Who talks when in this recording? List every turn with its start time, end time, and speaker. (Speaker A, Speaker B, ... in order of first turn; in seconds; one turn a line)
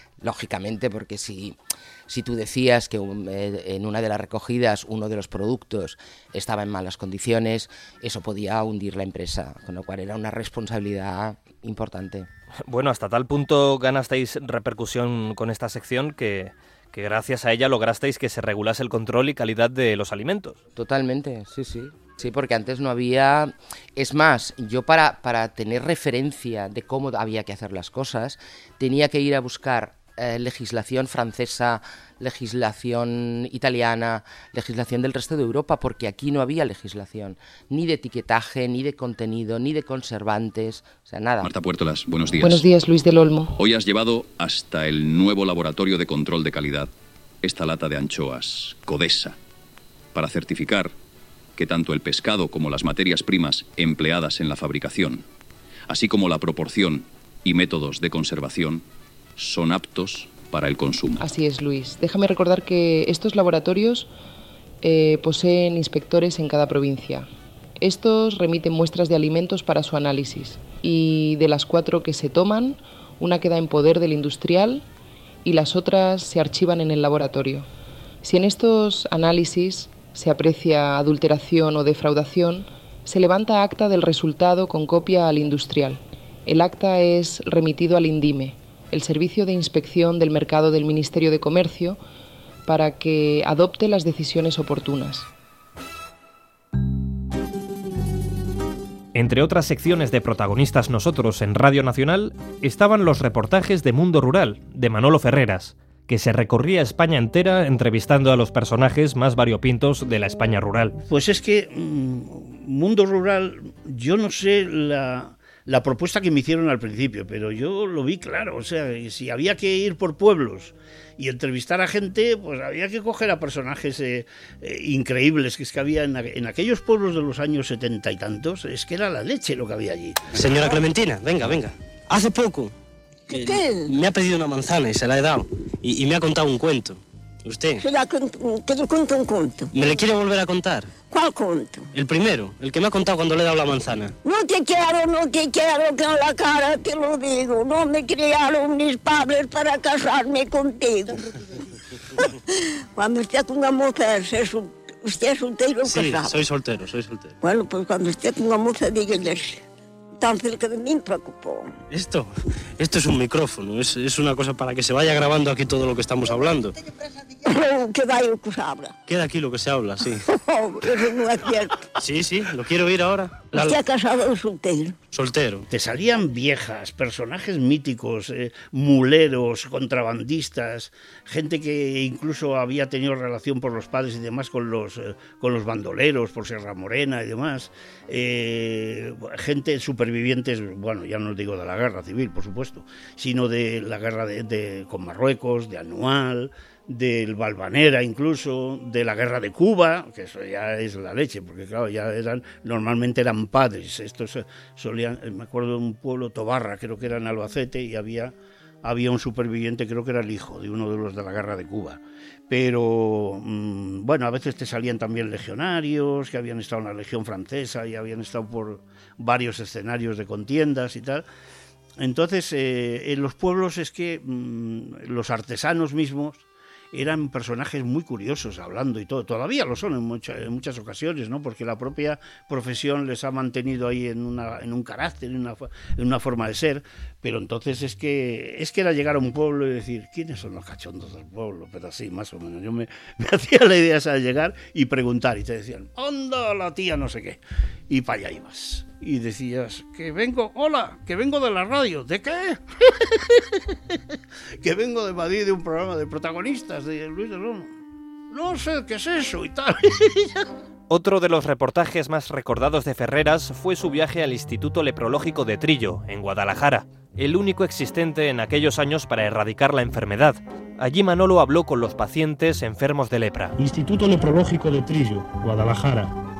Speaker A: 0.2-12.3
Speaker B: 12.7-20.6
Speaker A: 20.7-41.5
Speaker C: 41.4-42.6
Speaker D: 42.4-43.5
Speaker C: 43.5-46.9
Speaker C: 47.4-49.4
Speaker C: 50.1-50.9
Speaker C: 51.6-55.2
Speaker C: 55.9-58.8
Speaker C: 59.4-61.2
Speaker D: 61.2-64.1
Speaker D: 64.8-67.3
Speaker D: 67.8-74.8
Speaker D: 75.4-77.7
Speaker D: 78.2-92.0
Speaker D: 92.7-95.3
Speaker B: 99.1-110.9
Speaker E: 111.1-130.2
Speaker F: 130.3-132.7
Speaker G: 133.3-133.9
Speaker F: 133.3-137.8
Speaker G: 137.8-139.7
Speaker F: 139.7-140.9
Speaker G: 141.1-141.9
Speaker F: 141.9-144.1
Speaker G: 144.2-151.3
Speaker G: 152.9-156.4
Speaker F: 155.8-157.3
Speaker G: 157.4-159.6
Speaker G: 160.2-161.7
Speaker F: 161.9-166.7
Speaker G: 167.4-168.9
Speaker F: 169.1-170.2
Speaker G: 170.3-171.8
Speaker F: 172.0-173.8
Speaker G: 173.5-174.9
Speaker F: 175.1-175.6
Speaker E: 175.7-221.2
Speaker E: 222.0-253.3
Speaker E: 254.6-257.7
Speaker E: 258.3-260.4
Speaker B: 260.9-273.6
Speaker H: 273.6-276.1